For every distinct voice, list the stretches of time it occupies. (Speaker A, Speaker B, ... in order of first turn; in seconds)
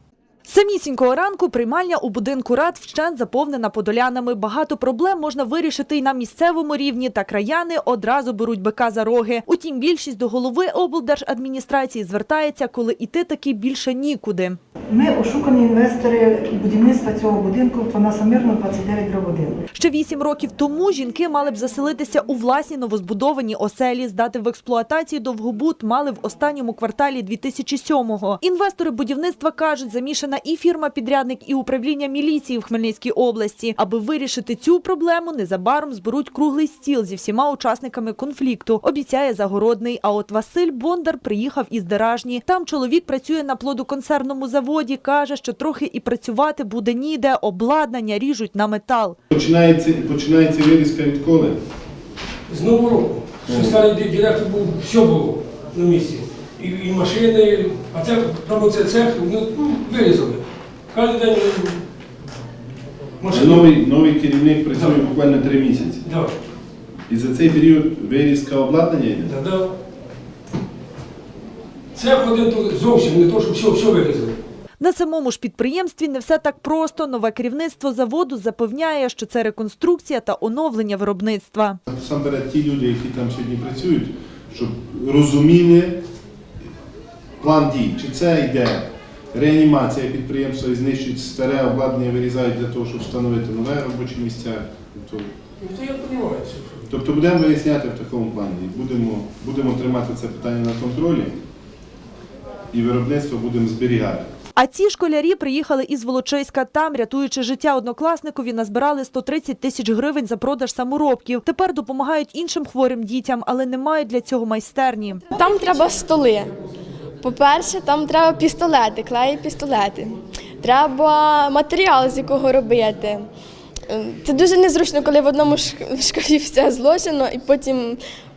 Speaker A: 0.5-14.6, 19.7-49.2, 74.8-81.8, 104.5-115.2
Speaker B: 14.9-19.5
Speaker C: 49.3-51.6, 53.5-53.8, 63.3-66.0, 67.1-69.3, 81.9-86.0, 87.4-95.3, 96.9-101.4, 102.7-104.2
Speaker D: 52.5-61.8, 63.2-63.8, 64.7-65.0, 66.0-66.3, 69.2-69.7, 71.9-74.4, 95.6-96.9
Speaker E: 115.3-116.5, 117.2-123.3, 123.9-128.0